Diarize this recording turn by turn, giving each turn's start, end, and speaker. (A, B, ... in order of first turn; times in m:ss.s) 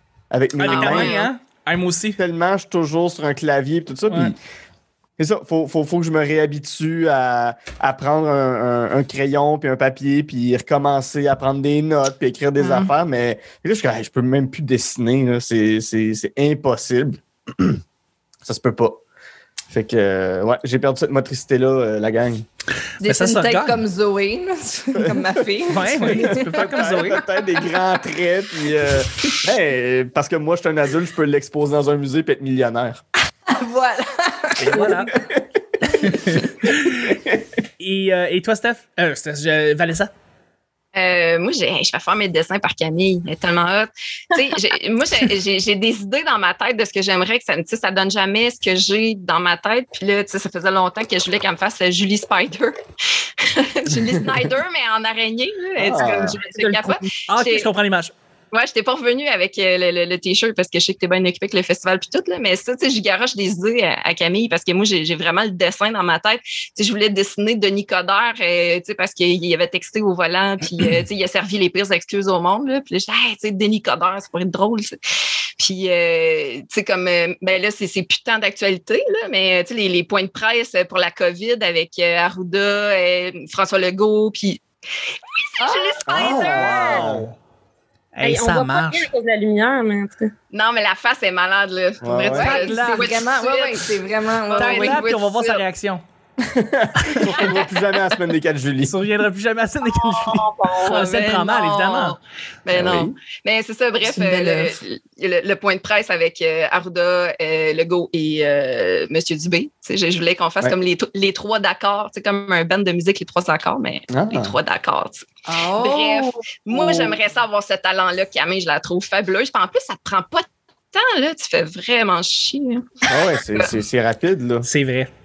0:00.3-0:01.2 A
0:00.6-0:02.2 B
0:00.6-0:01.3 C
0:02.2-0:04.4 A
0:05.2-0:17.8 A
0:12.6-0:12.9 C
0:18.4-0:19.0 A
0:19.7-0:22.4 A
0:23.0-0:23.8 B
0:23.0-0:27.6 D
0:25.0-0:25.3 A
0:25.7-0:27.2 B
0:25.9-0:33.0 A
0:33.5-0:35.3 D
0:34.6-0:35.1 B
0:34.8-0:35.4 A
0:35.8-0:36.7 D
0:36.0-0:37.2 B
0:37.0-0:37.4 A
0:37.8-0:40.1 B
0:40.9-0:57.7 C
0:55.8-0:56.4 A
0:56.0-0:57.0 E
0:57.3-0:58.1 B
0:58.5-1:15.0 C
1:15.6-1:24.6 C
1:25.4-1:27.1 C
1:25.6-1:26.4 D
1:26.0-1:27.3 A
1:26.4-1:27.3 B
1:28.1-1:29.1 B
1:28.2-1:30.3 E
1:30.5-1:33.9 C
1:32.0-1:32.5 A
1:32.3-1:33.2 B
1:32.4-1:35.0 D
1:34.4-1:35.6 C
1:34.6-1:36.0 B
1:36.4-1:39.0 A
1:37.0-1:37.3 B
1:38.8-1:42.2 B
1:39.8-1:41.0 E
1:40.8-2:03.7 C
1:42.7-1:43.1 A
1:44.0-1:44.8 D
1:54.1-1:54.6 A
1:55.5-1:57.1 D
2:03.1-2:04.7 A
2:04.6-2:05.1 B